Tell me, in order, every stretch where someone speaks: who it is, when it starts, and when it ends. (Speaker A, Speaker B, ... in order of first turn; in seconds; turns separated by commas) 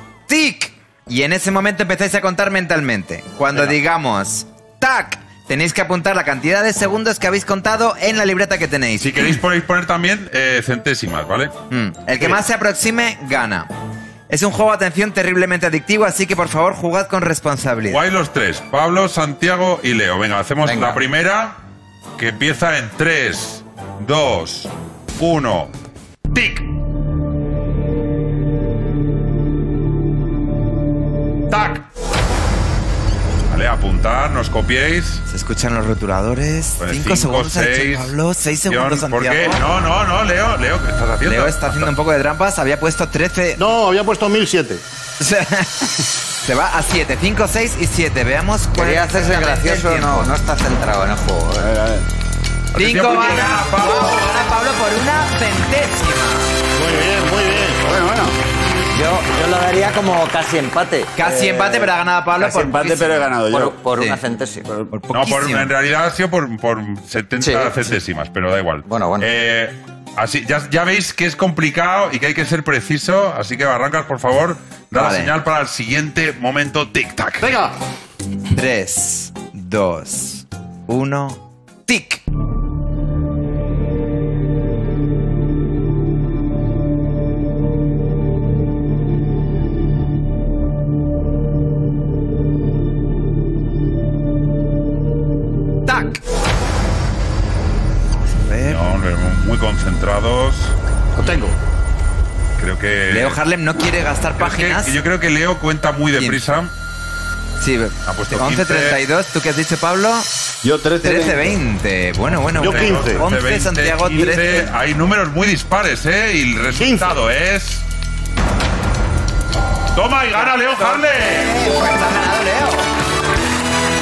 Speaker A: 0.3-9.3, Speaker B: 9.0-11.5, Speaker A: 11.7-13.7, Speaker A: 14.3-18.0, Speaker B: 17.9-21.6, Speaker C: 20.6-21.0, Speaker B: 22.2-25.7, Speaker B: 26.3-26.7, Speaker B: 33.5-35.2, Speaker A: 35.3-39.6, Speaker B: 36.8-38.1, Speaker B: 38.7-41.9, Speaker A: 41.2-43.6, Speaker D: 43.6-44.8, Speaker A: 45.2-50.3, Speaker C: 48.7-51.7, Speaker E: 51.6-52.1, Speaker B: 52.8-54.3, Speaker A: 52.8-56.5, Speaker D: 56.7-57.9, Speaker E: 57.8-58.4, Speaker C: 58.9-61.1, Speaker A: 61.2-63.2, Speaker E: 61.2-63.8, Speaker C: 63.5-64.7, Speaker A: 63.9-64.2, Speaker A: 64.9-65.7, Speaker B: 65.1-77.5, Speaker C: 67.4-67.7, Speaker C: 68.9-69.3, Speaker A: 74.9-75.3, Speaker D: 77.4-77.7, Speaker A: 78.5-82.2, Speaker A: 95.9-96.2, Speaker A: 98.3-98.8, Speaker B: 98.7-100.8, Speaker D: 101.2-101.5, Speaker B: 102.6-103.4, Speaker A: 103.1-105.0, Speaker B: 104.4-106.7, Speaker A: 106.2-106.5, Speaker A: 107.6-110.3, Speaker B: 108.1-109.0, Speaker E: 110.6-111.6, Speaker A: 111.0-114.7, Speaker B: 112.4-117.8, Speaker D: 112.6-113.2, Speaker D: 116.8-117.1, Speaker B: 119.9-121.5, Speaker A: 120.5-122.9